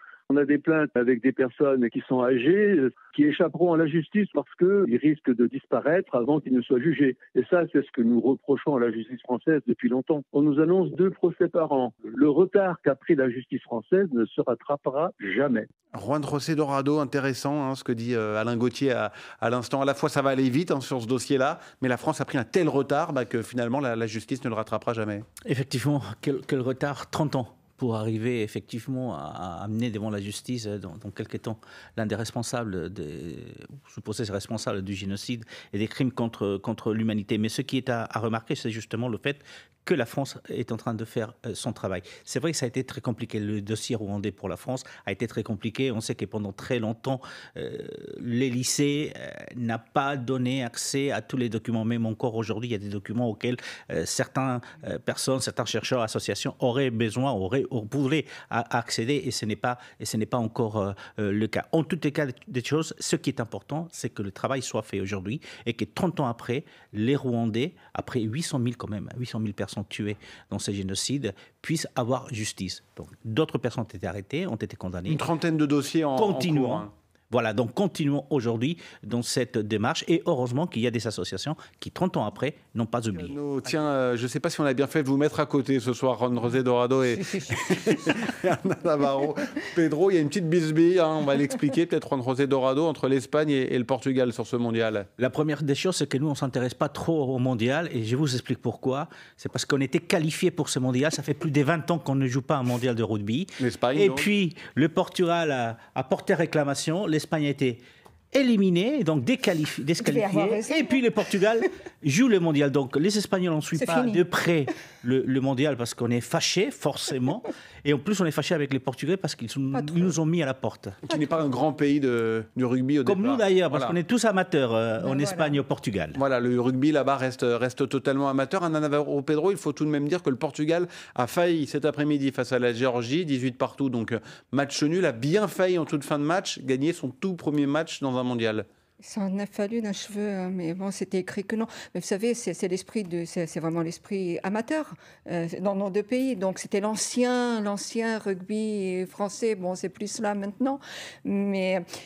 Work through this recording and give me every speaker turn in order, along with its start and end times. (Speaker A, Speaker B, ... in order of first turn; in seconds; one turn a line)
Speaker A: 0.3-15.6
Speaker B: 15.9-25.2
Speaker C: 25.4-75.2
Speaker B: 75.0-76.9
Speaker C: 76.2-83.3
Speaker B: 83.2-95.1
Speaker C: 95.2-107.8
Speaker B: 103.6-104.3
Speaker C: 108.3-121.0
Speaker D: 110.0-110.9
Speaker D: 113.7-114.2
Speaker B: 121.0-124.0
Speaker C: 123.0-126.2
Speaker D: 125.0-125.6
Speaker B: 126.1-138.7
Speaker D: 139.0-151.8